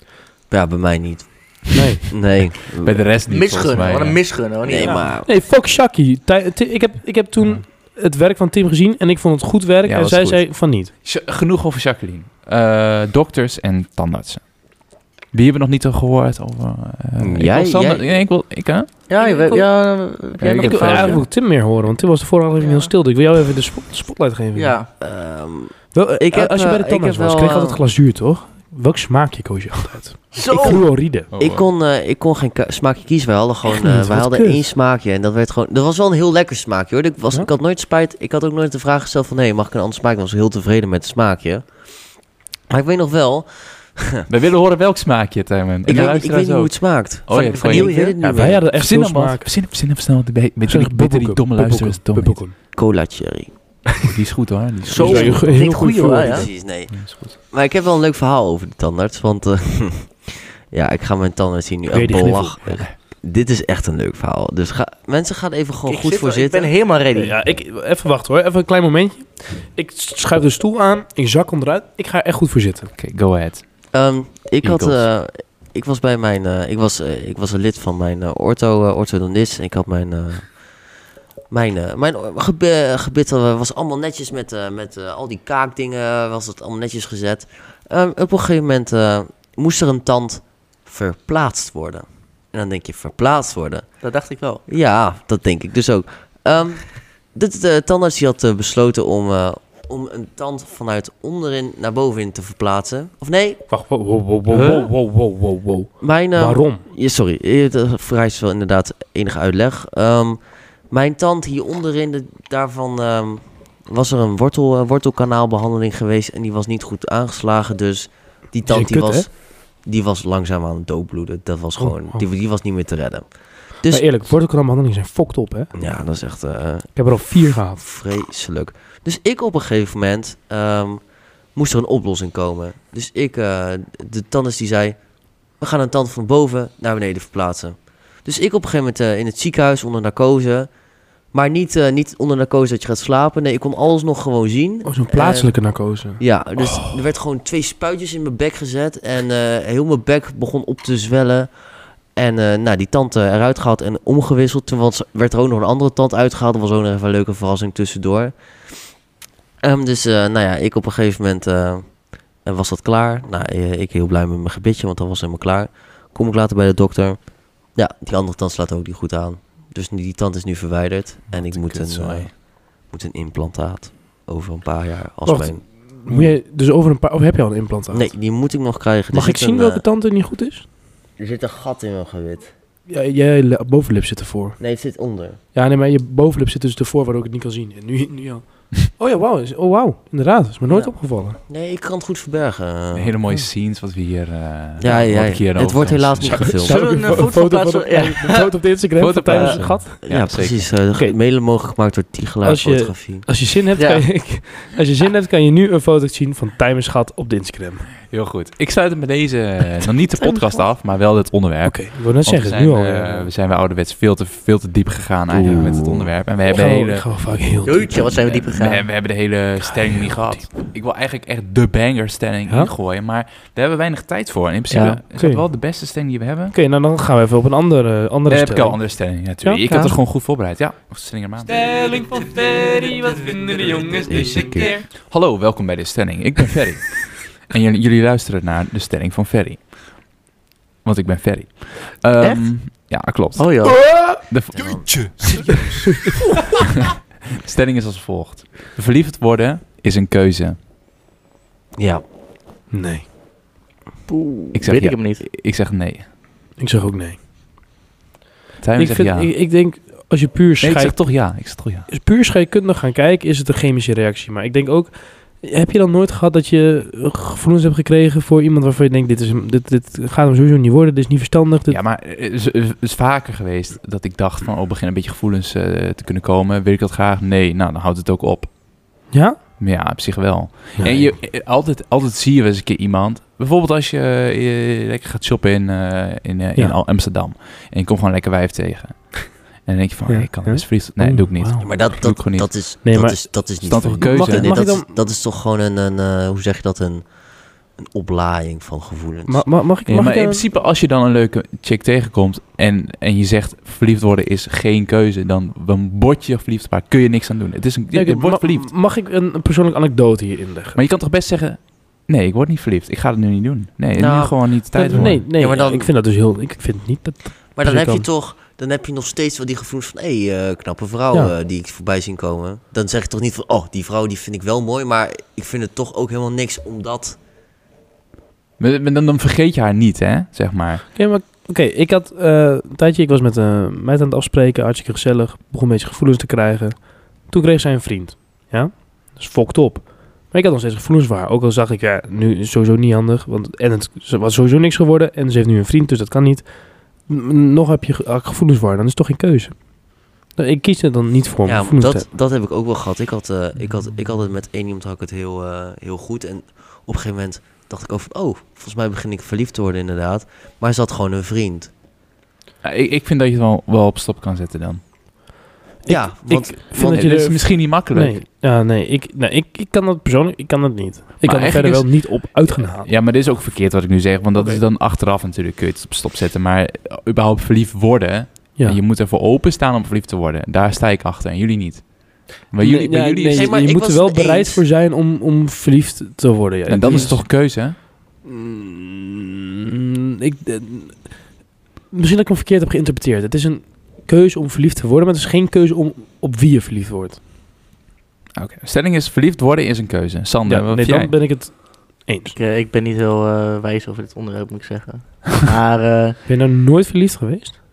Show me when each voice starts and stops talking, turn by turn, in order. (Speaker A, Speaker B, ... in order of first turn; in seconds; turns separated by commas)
Speaker A: 0.5-3.1, Speaker B: 1.8-2.0, Speaker C: 2.8-4.3, Speaker D: 3.3-5.1, Speaker A: 4.6-5.3, Speaker B: 4.8-10.9, Speaker C: 9.8-18.9, Speaker A: 17.2-18.1, Speaker D: 19.1-21.3, Speaker B: 19.2-19.6, Speaker C: 20.4-21.2, Speaker B: 20.6-24.8, Speaker D: 22.6-22.9, Speaker D: 24.6-24.9, Speaker A: 25.0-27.8, Speaker B: 25.9-31.3, Speaker D: 30.3-30.9, Speaker C: 31.3-31.7, Speaker A: 31.4-41.7, Speaker B: 33.8-34.7, Speaker A: 42.7-44.3, Speaker C: 44.3-52.4, Speaker A: 45.9-48.6, Speaker D: 47.3-48.2, Speaker B: 48.2-49.5, Speaker B: 50.7-52.6, Speaker A: 52.7-53.9, Speaker C: 54.0-55.6, Speaker D: 54.9-56.5, Speaker A: 54.9-66.7, Speaker B: 55.0-56.5, Speaker C: 56.9-57.4, Speaker B: 61.9-62.8, Speaker C: 62.6-62.9, Speaker D: 65.9-67.4, Speaker B: 67.1-72.9, Speaker C: 73.0-73.9, Speaker A: 73.9-80.6, Speaker C: 74.6-75.1, Speaker A: 81.5-94.0, Speaker D: 94.0-94.6, Speaker A: 94.7-103.7, Speaker B: 103.7-106.8, Speaker D: 104.5-104.8, Speaker A: 106.0-124.3, Speaker B: 118.7-119.3, Speaker B: 121.8-122.2, Speaker B: 123.9-125.7, Speaker A: 125.7-140.7, Speaker B: 127.0-127.8, Speaker A: 141.3-151.6, Speaker B: 144.8-146.8, Speaker A: 152.1-158.7, Speaker A: 159.6-175.7, Speaker C: 171.3-172.3, Speaker B: 175.2-178.1, Speaker A: 177.9-179.8, Speaker B: 179.1-180.7, Speaker A: 181.2-182.5, Speaker B: 182.9-184.6, Speaker A: 184.6-185.4, Speaker B: 185.5-191.4, Speaker A: 190.7-193.2, Speaker C: 192.9-196.6, Speaker A: 194.8-197.2, Speaker B: 196.2-200.3, Speaker D: 196.6-198.7, Speaker C: 199.0-200.8, Speaker A: 199.3-203.3, Speaker B: 202.4-208.0, Speaker D: 203.8-204.3, Speaker C: 208.1-217.3, Speaker B: 210.2-210.6, Speaker B: 211.6-213.3, Speaker A: 215.3-216.1, Speaker B: 216.4-218.3, Speaker D: 217.6-218.9, Speaker C: 218.3-226.6, Speaker B: 219.7-220.4, Speaker D: 224.7-225.0, Speaker B: 225.2-225.5, Speaker B: 226.5-229.6, Speaker C: 228.3-231.7, Speaker D: 229.7-230.0, Speaker E: 231.7-234.7, Speaker A: 234.0-234.7, Speaker C: 234.9-240.2, Speaker C: 240.8-245.5, Speaker D: 242.2-244.1, Speaker B: 243.9-244.2, Speaker A: 244.5-245.5, Speaker E: 244.8-245.6, Speaker C: 247.0-250.6, Speaker A: 251.8-252.0, Speaker B: 252.7-253.1, Speaker D: 254.1-255.3, Speaker C: 254.5-256.1, Speaker B: 256.6-257.2, Speaker C: 258.6-259.3, Speaker B: 258.8-271.8, Speaker C: 260.6-261.9, Speaker C: 271.7-279.0, Speaker B: 279.1-279.4, Speaker C: 279.6-292.8, Speaker B: 280.8-281.1, Speaker B: 290.1-292.0, Speaker A: 291.6-297.1, Speaker B: 292.8-294.9, Speaker C: 293.6-294.5, Speaker A: 297.8-299.5, Speaker B: 299.3-300.4, Speaker C: 299.9-308.7, Speaker B: 307.9-310.8, Speaker C: 310.8-315.3, Speaker A: 313.9-315.9, Speaker B: 314.7-318.1, Speaker A: 317.6-327.2, Speaker C: 328.6-330.9, Speaker B: 330.9-352.1, Speaker A: 351.4-361.7, Speaker C: 362.6-364.8, Speaker B: 365.8-372.9, Speaker A: 365.9-367.3, Speaker C: 366.8-368.2, Speaker C: 371.2-383.6, Speaker B: 374.4-374.6, Speaker B: 382.6-391.3, Speaker A: 383.3-384.7, Speaker C: 386.7-387.8, Speaker B: 391.9-397.2, Speaker C: 398.4-401.2, Speaker B: 400.4-402.4, Speaker D: 402.3-406.2, Speaker B: 406.3-407.6